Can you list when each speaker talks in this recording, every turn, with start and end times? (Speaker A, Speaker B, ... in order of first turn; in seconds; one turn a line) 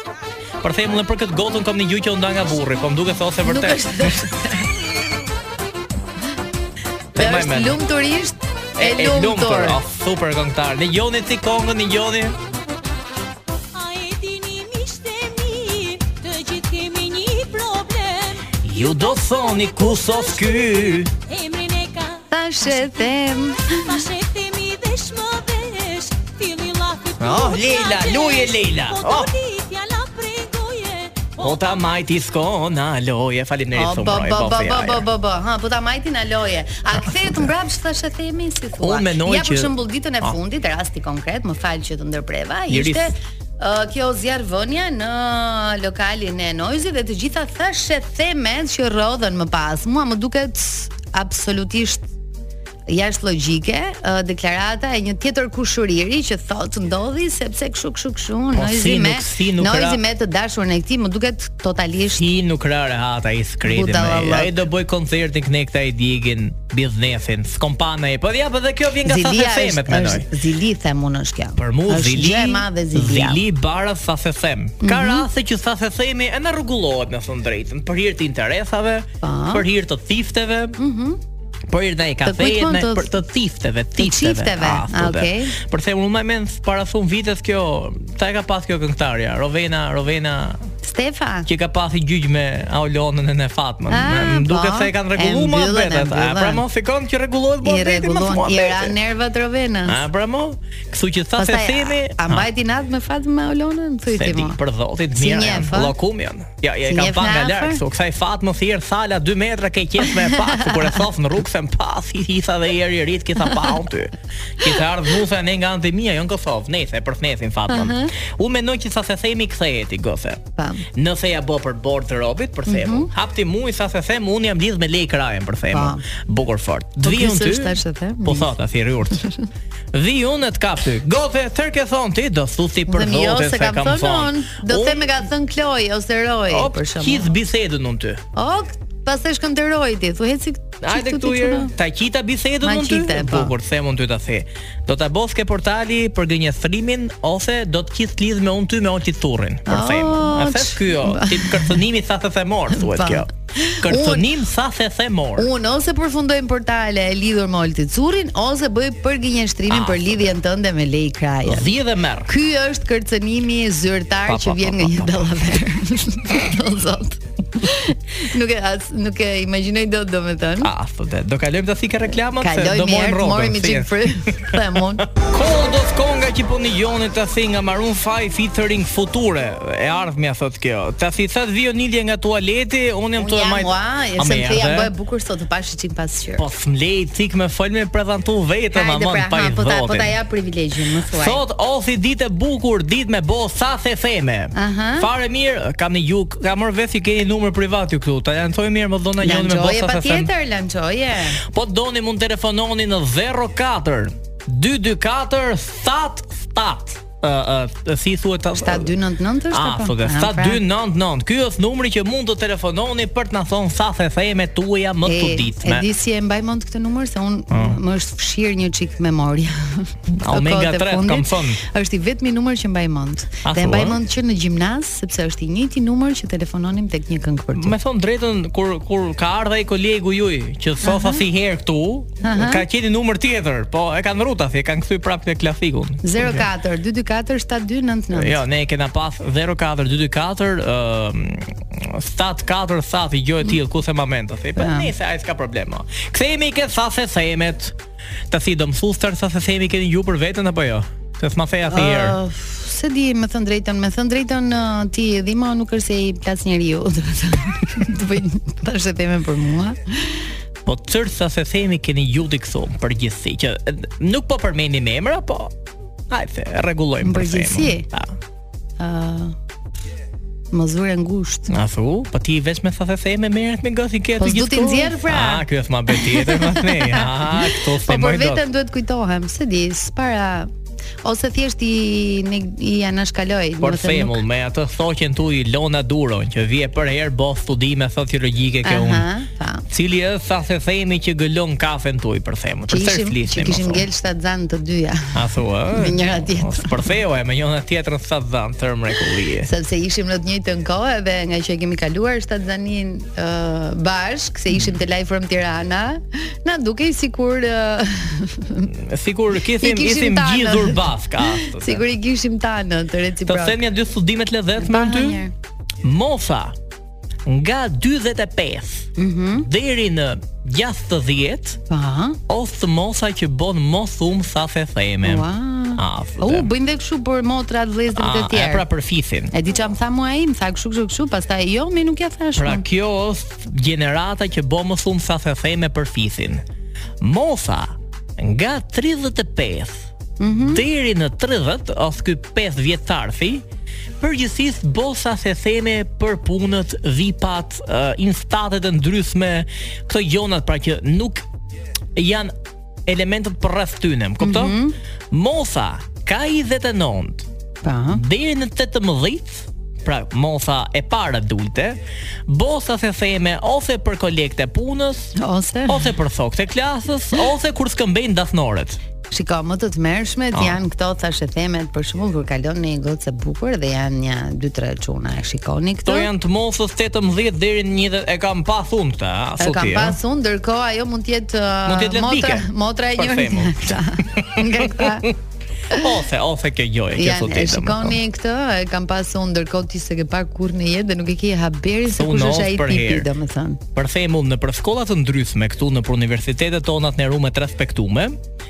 Speaker A: 0.6-4.3
Speaker B: 3.4-4.7
Speaker A: 7.1-7.8
Speaker B: 7.2-9.8
Speaker A: 8.8-12.4
Speaker C: 13.7-23.1
Speaker A: 18.6-21.1
Speaker B: 22.3-24.0
Speaker C: 23.7-31.8
Speaker A: 27.2-29.3
Speaker A: 31.4-35.1
Speaker B: 33.8-52.0
Speaker A: 37.0-37.4
Speaker A: 38.8-40.4
Speaker A: 42.7-43.1
Speaker B: 52.9-62.2
Speaker A: 58.5-60.0
Speaker A: 62.2-70.3
Speaker B: 63.6-64.5
Speaker B: 69.1-73.4
Speaker A: 71.6-80.8
Speaker B: 74.8-75.3
Speaker B: 79.2-79.7
Speaker B: 80.8-81.2
Speaker A: 81.7-90.7
Speaker B: 82.2-83.1
Speaker B: 84.0-85.5
Speaker B: 90.8-91.5
Speaker A: 91.5-99.0
Speaker B: 93.9-96.6
Speaker B: 97.6-100.0
Speaker A: 99.9-102.5
Speaker B: 101.4-104.6
Speaker A: 104.1-120.4
Speaker B: 105.2-106.0
Speaker B: 106.9-107.8
Speaker B: 110.1-110.9
Speaker B: 117.7-118.1
Speaker B: 120.6-120.8
Speaker A: 120.9-129.2
Speaker B: 122.7-123.1
Speaker B: 125.7-126.0
Speaker B: 127.0-128.5
Speaker A: 129.9-135.2
Speaker B: 132.9-137.3
Speaker A: 136.5-138.2
Speaker B: 138.4-141.7
Speaker A: 140.8-153.3
Speaker B: 142.6-143.5
Speaker B: 149.7-151.8
Speaker B: 152.7-154.3
Speaker A: 153.8-155.5
Speaker B: 155.4-161.7
Speaker A: 159.7-160.4
Speaker A: 161.4-162.3
Speaker B: 162.3-170.7
Speaker A: 164.3-165.6
Speaker A: 170.6-184.9
Speaker B: 172.4-175.1
Speaker B: 183.2-186.4
Speaker A: 186.4-190.2
Speaker B: 188.7-191.4
Speaker A: 191.1-200.3
Speaker B: 194.6-195.1
Speaker B: 199.2-201.4
Speaker A: 201.5-208.9
Speaker B: 208.6-210.6
Speaker A: 209.5-215.9
Speaker B: 215.1-227.8
Speaker A: 217.5-217.8
Speaker A: 220.1-221.6
Speaker A: 223.4-224.0
Speaker A: 227.6-236.5
Speaker B: 230.8-231.2
Speaker B: 232.2-232.6
Speaker B: 236.0-238.4
Speaker A: 238.1-247.8
Speaker B: 244.6-244.9
Speaker A: 248.3-252.2
Speaker B: 251.7-260.2
Speaker A: 260.6-265.5
Speaker A: 266.1-268.2
Speaker B: 267.0-267.9
Speaker B: 268.8-269.4
Speaker B: 270.5-271.5
Speaker A: 271.5-278.4
Speaker B: 274.2-280.5
Speaker B: 281.0-284.2
Speaker A: 283.6-289.1
Speaker B: 288.6-289.6
Speaker A: 289.7-293.9
Speaker B: 292.7-295.2
Speaker A: 295.1-299.5
Speaker B: 295.7-296.9
Speaker B: 299.4-308.7
Speaker A: 308.7-311.8
Speaker B: 309.6-313.6
Speaker A: 313.3-315.2
Speaker B: 314.6-315.3
Speaker A: 315.8-316.6
Speaker A: 317.3-321.6
Speaker B: 319.0-319.5
Speaker B: 321.7-322.2
Speaker A: 322.3-326.5
Speaker B: 325.0-328.6
Speaker A: 327.9-329.3
Speaker B: 329.3-332.7
Speaker A: 332.4-336.4
Speaker A: 337.0-343.4
Speaker B: 340.2-340.6
Speaker A: 344.0-351.3
Speaker A: 351.9-352.3
Speaker A: 352.9-354.6
Speaker B: 354.2-354.8
Speaker A: 355.1-357.3
Speaker B: 357.6-358.0
Speaker A: 357.9-365.1
Speaker B: 365.2-365.9
Speaker A: 365.7-368.8
Speaker B: 369.1-376.1
Speaker A: 375.9-380.0
Speaker B: 379.4-385.1
Speaker A: 381.6-385.1
Speaker A: 385.7-388.0
Speaker B: 387.0-393.6
Speaker A: 391.9-393.1
Speaker A: 393.8-398.2